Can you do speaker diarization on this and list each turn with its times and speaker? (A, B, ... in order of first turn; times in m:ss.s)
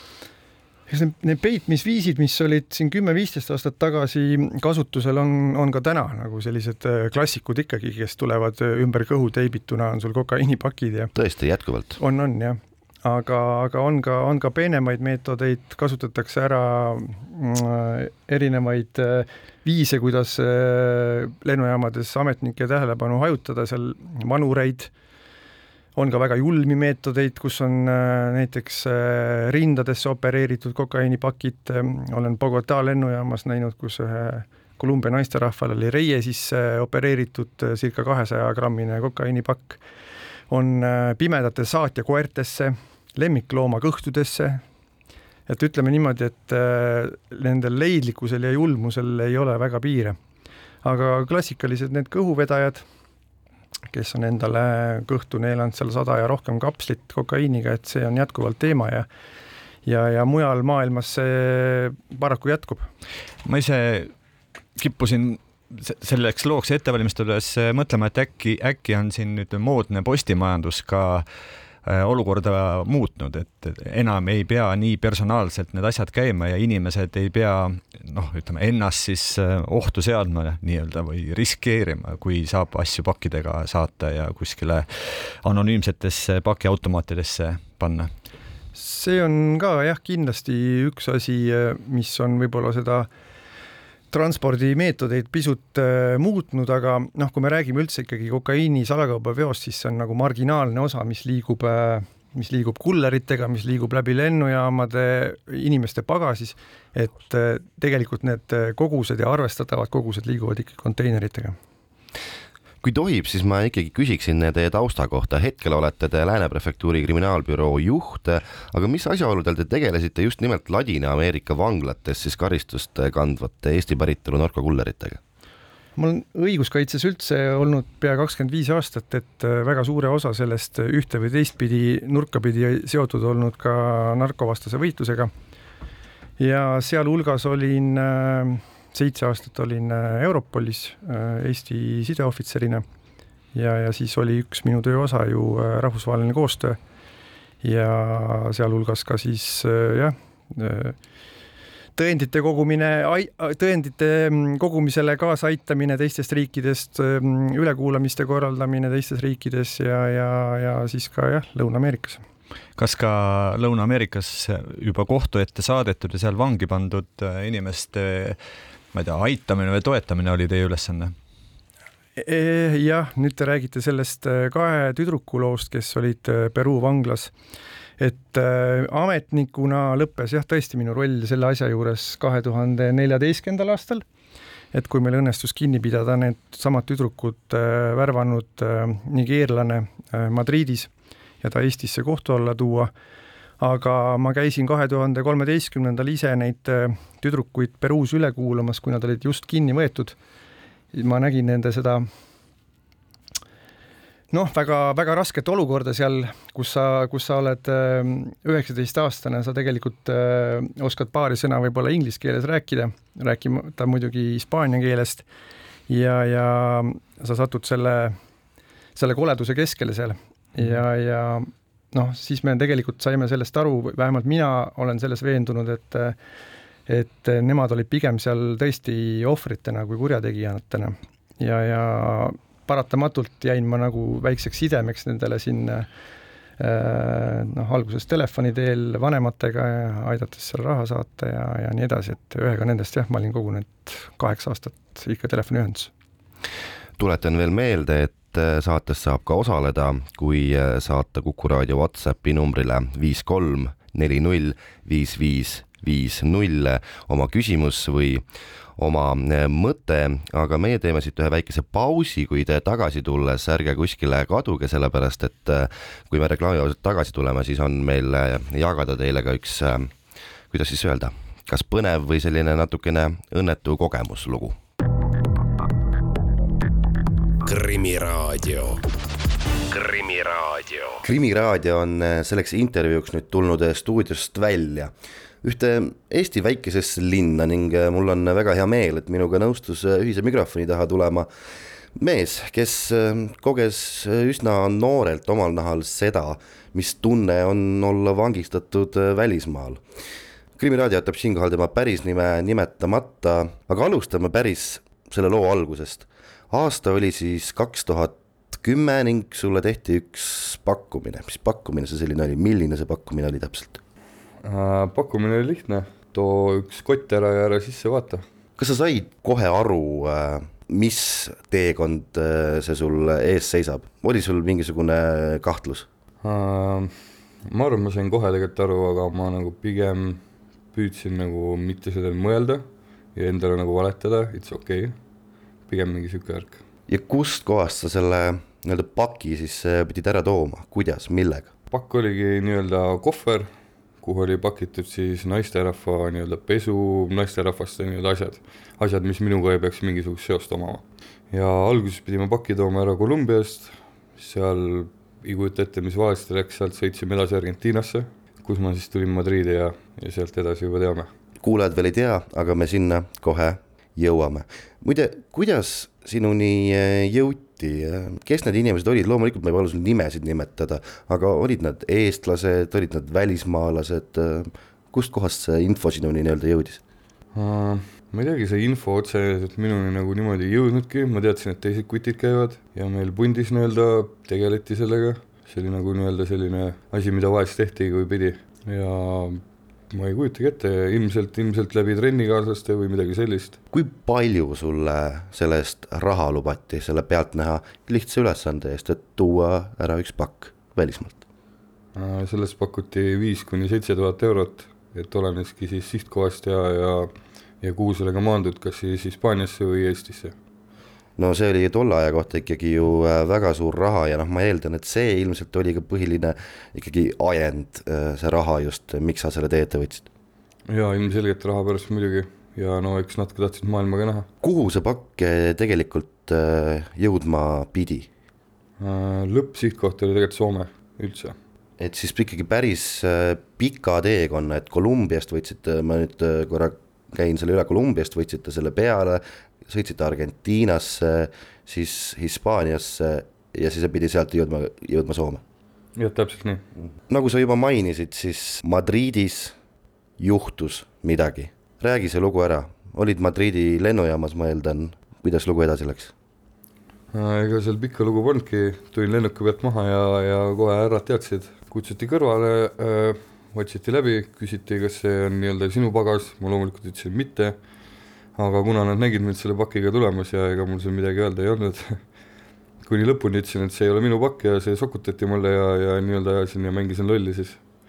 0:00.9-0:11.1 A
0:11.1-0:12.0 B
0:12.0-0:24.9 A
0:26.0-0:39.8 A
0:40.5-0:44.6 A
0:45.5-0:50.2 A
0:50.8-0:52.8 A
0:53.9-0:59.0 A
0:59.8-1:02.9 A
1:03.4-1:04.1 C
1:04.8-1:11.2 C
1:11.8-1:28.1 C
1:28.7-1:33.1 A
1:34.1-1:51.6 A
1:52.8-2:05.2 B
2:06.0-2:15.3 A
2:16.4-2:22.8 A
2:23.5-2:26.8 A
2:27.6-2:31.0 A
2:32.0-2:42.2 A
2:42.8-2:48.4 C
2:48.9-2:51.1 C
2:52.2-2:57.3 A
2:58.0-3:04.0 A
3:04.7-3:10.9 A
3:11.4-3:12.9 A
3:13.6-3:20.2 A
3:20.9-3:22.1 A
3:24.3-3:35.2 A
3:35.9-3:38.1 A
3:39.0-3:46.2 A
3:46.9-3:55.8 A
3:56.6-4:05.9 A
4:07.0-4:18.2 B
4:18.8-4:29.9 B
4:30.5-4:34.6 B
4:37.4-4:38.8 D
4:39.6-4:41.0 D
4:41.0-4:44.9 B
4:45.4-4:51.3 B
4:51.9-4:59.8 B
5:00.6-5:13.8 B
5:14.4-5:18.2 E
5:18.6-5:25.9 B
5:26.2-5:26.9 E
5:27.4-5:30.2 E
5:30.7-5:35.0 E
5:35.7-5:36.6 E
5:36.9-5:41.5 B
5:41.7-5:43.5 E
5:44.0-6:01.1 E
6:01.4-6:16.8 B
6:17.3-6:33.6 E
6:33.7-6:41.2 B
6:41.9-6:50.3 E
6:51.2-7:00.0 B
7:00.7-7:04.3 E
7:04.4-7:08.1 B
7:08.8-7:11.4 E
7:11.8-7:25.4 B
7:25.9-7:26.6 E
7:27.1-7:29.5 B
7:30.2-7:36.1 B
7:37.1-7:47.6 E
7:48.3-7:52.0 E
7:52.8-7:57.6 E